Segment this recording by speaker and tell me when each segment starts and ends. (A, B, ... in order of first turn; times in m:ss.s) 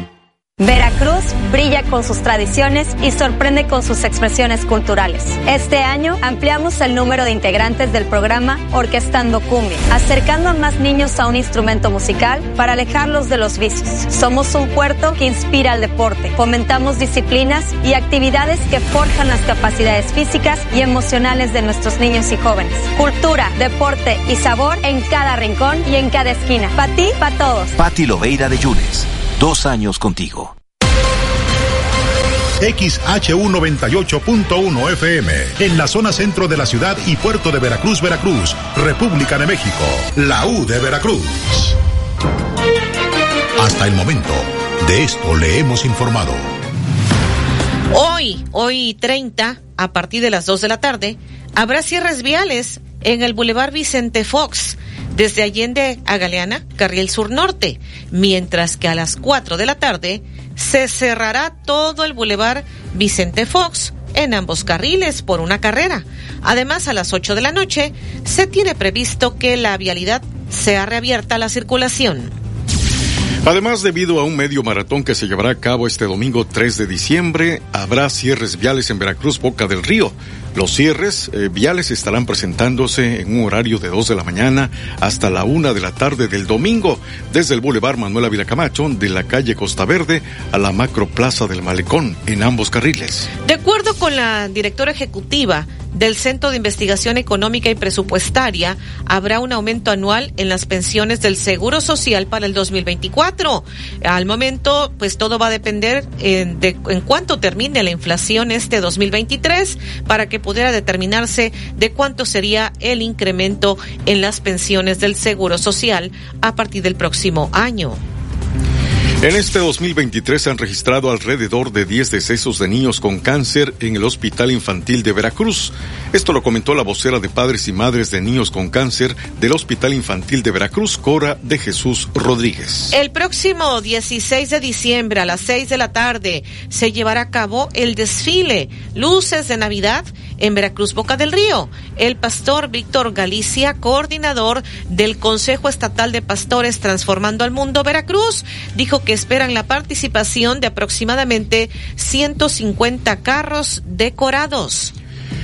0:00.6-0:27.7 A
0:27.8-0:30.5 B
0:32.6-0:41.7 C
0:43.6-0:46.5 C
0:47.9-1:12.3 D
1:13.4-1:33.3 E
1:33.4-1:58.0 D
1:59.2-2:12.9 E
2:12.9-2:34.9 D